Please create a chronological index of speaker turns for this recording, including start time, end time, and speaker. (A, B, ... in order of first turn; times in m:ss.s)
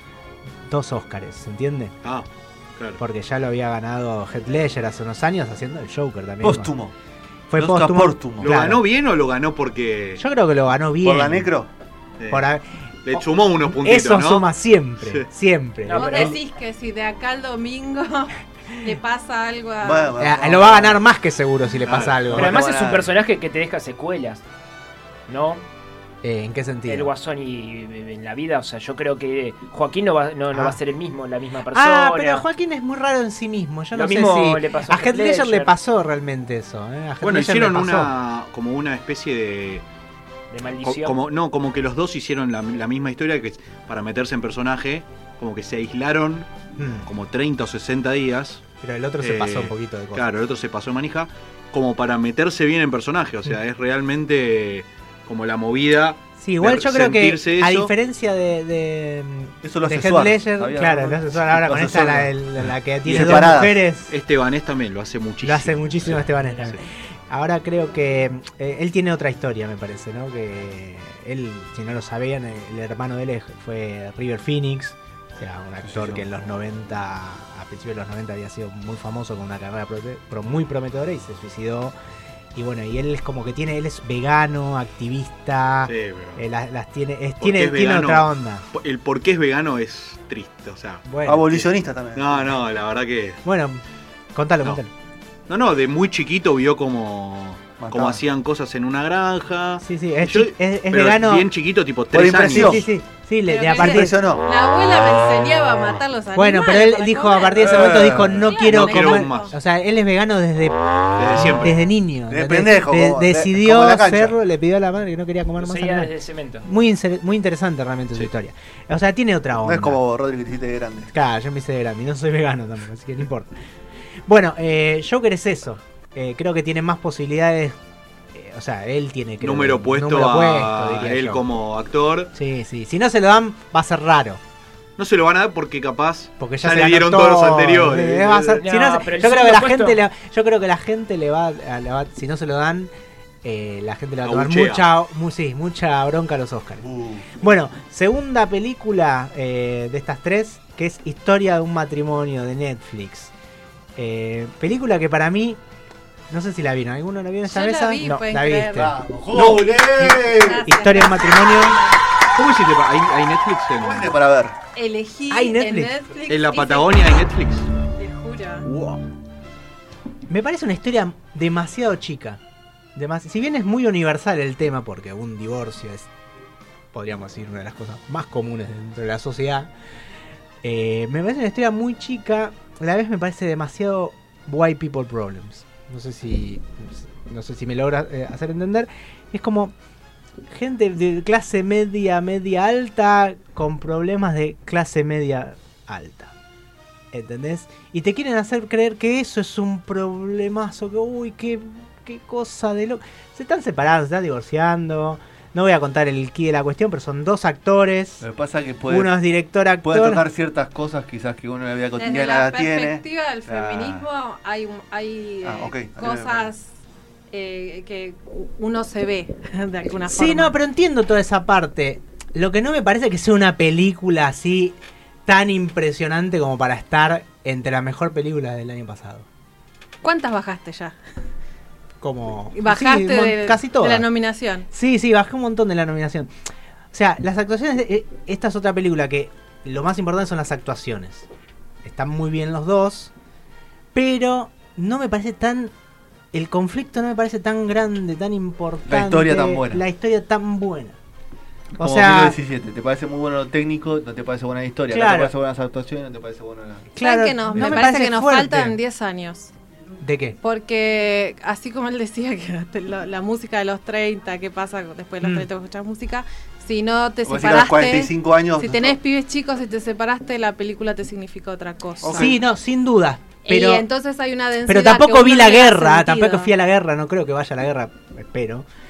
0:00.7-0:01.9 A
0:03.0-0:06.7 A
0:06.4-0:06.9 B
0:07.5-0:08.8 A
0:07.5-0:08.6 B
0:08.4-0:10.2 C
0:10.2-0:11.5 A
0:11.0-0:11.7 B
0:12.2-0:12.5 C
0:12.3-0:12.6 A
0:13.0-0:14.5 C
0:13.2-0:16.4 A
0:15.0-0:15.2 C
0:15.8-0:16.4 D
0:15.9-0:20.2 E
0:19.8-0:21.0 B
0:20.2-0:22.6 A
0:21.8-0:22.2 C
0:22.3-0:23.1 B
0:22.3-0:24.4 D
0:25.3-0:25.6 D
0:26.2-0:27.1 A
0:26.9-0:32.4 D
0:30.5-0:30.8 A
0:31.7-0:38.1 A
0:33.9-0:35.7 D
0:37.2-0:39.8 C
0:40.5-0:41.2 D
0:40.8-0:46.5 C
0:46.8-0:47.1 A
0:47.0-0:48.6 C
0:48.8-0:50.2 A
0:49.2-0:57.9 C
0:56.4-1:04.1 A
0:59.6-1:03.8 B
1:03.0-1:06.8 C
1:05.4-1:21.9 A
1:15.8-1:16.3 B
1:22.5-1:28.6 A
1:25.8-1:26.4 C
1:27.4-1:31.0 C
1:31.0-1:31.7 A
1:31.2-1:32.6 B
1:32.2-1:33.4 C
1:33.4-1:33.8 A
1:34.3-1:34.9 A
1:35.5-1:42.9 C
1:37.8-1:38.2 B
1:39.8-1:41.5 A
1:42.1-1:42.9 B
1:42.4-1:44.2 A
1:43.4-1:49.5 E
1:43.8-1:44.4 B
1:46.3-1:56.1 A
1:47.6-1:48.5 B
1:47.7-1:49.5 C
1:51.2-1:51.8 C
1:52.3-1:54.4 B
1:55.6-1:56.7 D
1:56.6-2:00.0 A
1:59.6-2:01.1 B
2:01.1-2:03.5 A
2:04.3-2:07.8 A
2:08.3-2:11.4 A
2:09.4-2:12.3 C
2:12.3-2:14.4 A
2:15.0-2:18.6 C
2:16.4-2:22.9 A
2:18.6-2:20.0 D
2:23.4-2:26.8 A
2:24.2-2:24.9 C
2:26.8-2:27.4 B
2:27.4-2:33.3 A
2:34.0-2:35.6 A
2:36.3-2:41.8 A
2:37.4-2:38.9 E
2:38.7-2:40.7 B
2:40.2-2:42.0 E
2:42.3-2:44.1 C
2:43.8-2:44.6 B
2:44.7-2:47.2 E
2:45.3-2:45.9 A
2:46.3-2:47.7 C
2:47.9-2:48.7 E
2:48.6-2:49.0 C
2:50.3-2:52.4 A
2:53.0-2:56.1 A
2:56.9-2:59.7 A
3:00.6-3:09.7 A
3:10.5-3:16.3 A
3:17.1-3:28.2 A
3:28.2-3:29.1 B
3:28.9-3:30.2 A
3:29.8-3:34.0 B
3:32.0-3:36.7 E
3:35.4-3:36.5 B
3:37.3-3:40.6 E
3:40.0-3:49.2 A
3:50.0-3:51.0 E
3:52.0-3:54.1 A
3:52.5-3:54.7 E
3:54.7-3:56.3 A
3:56.9-4:01.3 A
4:01.8-4:03.1 A
4:03.9-4:05.7 A
4:06.3-4:11.0 A
4:08.9-4:09.8 B
4:11.8-4:12.4 A
4:11.8-4:16.9 B
4:14.9-4:15.3 A
4:17.0-4:18.8 A
4:17.0-4:19.5 E
4:20.0-4:20.4 A
4:20.4-4:32.3 E
4:27.2-4:29.0 B
4:32.0-4:32.4 B
4:32.0-4:33.9 A
4:33.4-4:36.5 E
4:34.6-4:38.6 A